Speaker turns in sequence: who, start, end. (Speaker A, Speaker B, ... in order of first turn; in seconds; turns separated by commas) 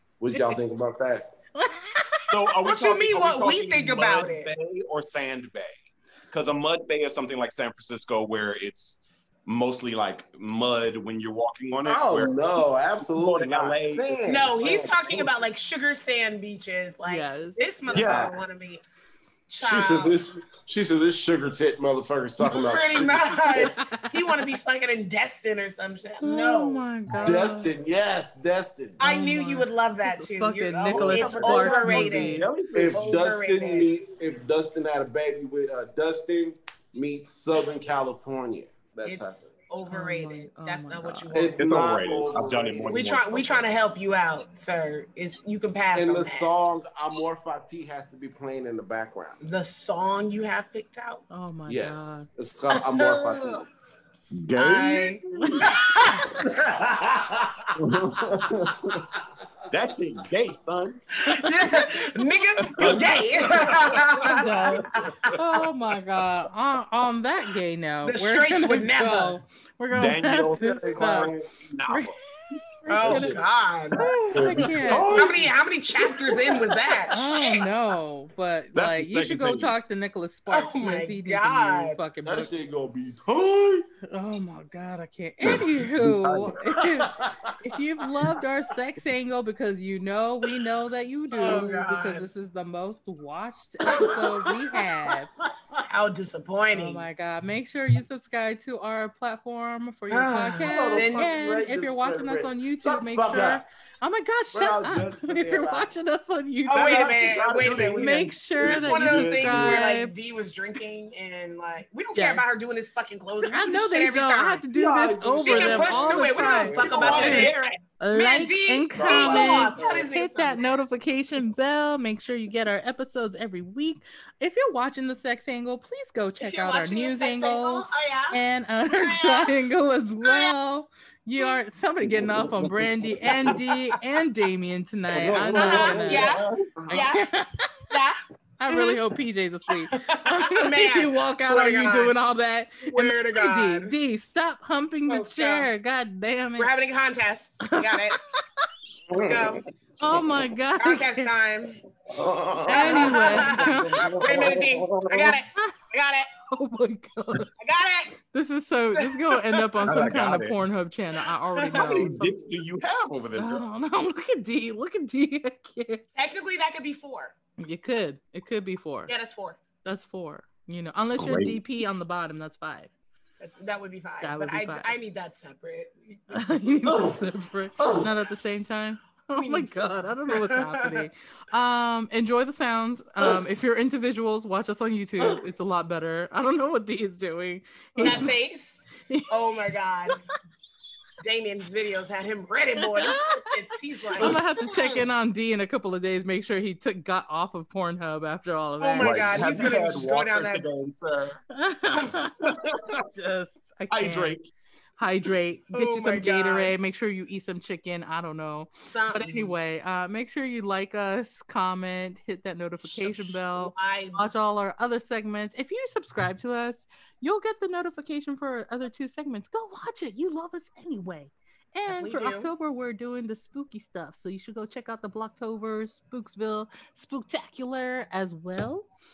Speaker A: 0.2-1.3, Speaker B: 1.6-2.5, Speaker C: 2.3-5.7, Speaker D: 2.7-4.5, Speaker C: 6.3-12.4, Speaker A: 11.8-15.4, Speaker C: 13.0-14.4, Speaker D: 14.3-18.8, Speaker B: 17.1-17.6, Speaker A: 17.9-18.3, Speaker C: 17.9-18.3, Speaker D: 19.5-20.2, Speaker A: 19.6-23.7, Speaker D: 22.4-27.4, Speaker B: 23.7-24.1, Speaker B: 26.2-27.8, Speaker A: 27.2-29.0, Speaker B: 29.0-32.5, Speaker D: 29.0-33.9, Speaker A: 30.9-31.8, Speaker C: 31.2-33.2, Speaker A: 32.7-39.5, Speaker D: 39.0-42.0, Speaker B: 39.9-41.3, Speaker A: 41.3-43.0, Speaker C: 41.6-43.7, Speaker D: 42.9-46.5, Speaker A: 45.9-49.4, Speaker D: 49.4-51.2, Speaker B: 51.3-52.3, Speaker A: 51.7-53.7, Speaker D: 52.7-53.6, Speaker C: 54.3-55.7, Speaker D: 54.6-56.4, Speaker A: 56.3-57.8, Speaker C: 57.8-59.0, Speaker A: 58.4-59.0, Speaker C: 59.7-61.0, Speaker D: 61.1-65.3, Speaker C: 62.6-65.3, Speaker B: 64.3-71.3, Speaker D: 68.0-69.4, Speaker C: 69.9-72.2, Speaker A: 70.6-71.5, Speaker B: 71.9-72.2, Speaker B: 72.8-73.4, Speaker D: 72.9-74.1, Speaker A: 72.9-73.4, Speaker B: 73.9-75.3, Speaker A: 74.3-77.0, Speaker C: 74.5-75.4, Speaker D: 75.1-77.7, Speaker B: 77.1-82.5, Speaker C: 78.7-79.8, Speaker D: 80.5-82.0, Speaker A: 82.2-83.9, Speaker B: 84.1-95.3, Speaker C: 86.0-86.5, Speaker A: 86.6-88.3, Speaker D: 91.3-92.3, Speaker A: 93.8-95.8, Speaker D: 95.9-97.1, Speaker B: 96.7-107.2, Speaker D: 100.1-101.8, Speaker A: 100.6-103.6, Speaker A: 104.5-105.9, Speaker D: 106.7-114.6, Speaker C: 106.7-108.3, Speaker B: 107.9-110.1, Speaker A: 108.6-109.8, Speaker B: 112.2-112.4, Speaker B: 113.4-136.3, Speaker A: 114.7-117.5, Speaker D: 115.5-117.6, Speaker C: 116.9-117.8, Speaker D: 118.1-120.8, Speaker A: 119.0-120.1, Speaker D: 126.4-128.4, Speaker D: 128.9-129.6, Speaker D: 130.2-130.5, Speaker A: 132.1-133.6, Speaker A: 135.1-137.1, Speaker D: 135.5-137.4, Speaker C: 136.1-136.7, Speaker B: 136.9-137.7, Speaker D: 137.9-139.0, Speaker B: 138.6-146.7, Speaker D: 139.9-142.1, Speaker D: 142.8-143.9, Speaker D: 145.1-145.7, Speaker D: 146.6-148.2, Speaker B: 147.7-148.6, Speaker C: 149.1-149.7, Speaker D: 149.1-149.6, Speaker B: 150.0-151.3, Speaker D: 150.8-151.8, Speaker C: 152.1-155.4, Speaker B: 152.7-154.1, Speaker D: 152.7-156.3, Speaker B: 156.5-157.5, Speaker D: 157.6-158.1, Speaker B: 158.3-162.4, Speaker D: 159.0-159.7, Speaker C: 159.8-160.6, Speaker D: 161.6-162.1, Speaker C: 161.7-163.6, Speaker B: 163.4-166.0, Speaker D: 166.2-167.3, Speaker B: 167.6-169.1, Speaker D: 169.1-169.6, Speaker B: 169.8-172.9, Speaker C: 171.2-171.6, Speaker D: 173.4-176.5, Speaker B: 174.2-174.9, Speaker B: 176.3-188.4, Speaker A: 176.8-177.2, Speaker A: 177.8-178.2, Speaker D: 179.3-181.1, Speaker D: 188.0-190.2, Speaker B: 189.1-190.2, Speaker D: 191.2-195.0, Speaker B: 193.0-193.6, Speaker B: 194.2-199.6, Speaker D: 198.8-200.6, Speaker C: 199.0-201.4, Speaker B: 201.5-204.4, Speaker C: 202.4-203.0, Speaker C: 203.9-204.5, Speaker B: 205.0-228.9, Speaker D: 205.7-206.7, Speaker D: 208.9-209.6, Speaker D: 212.8-214.3, Speaker D: 221.9-222.5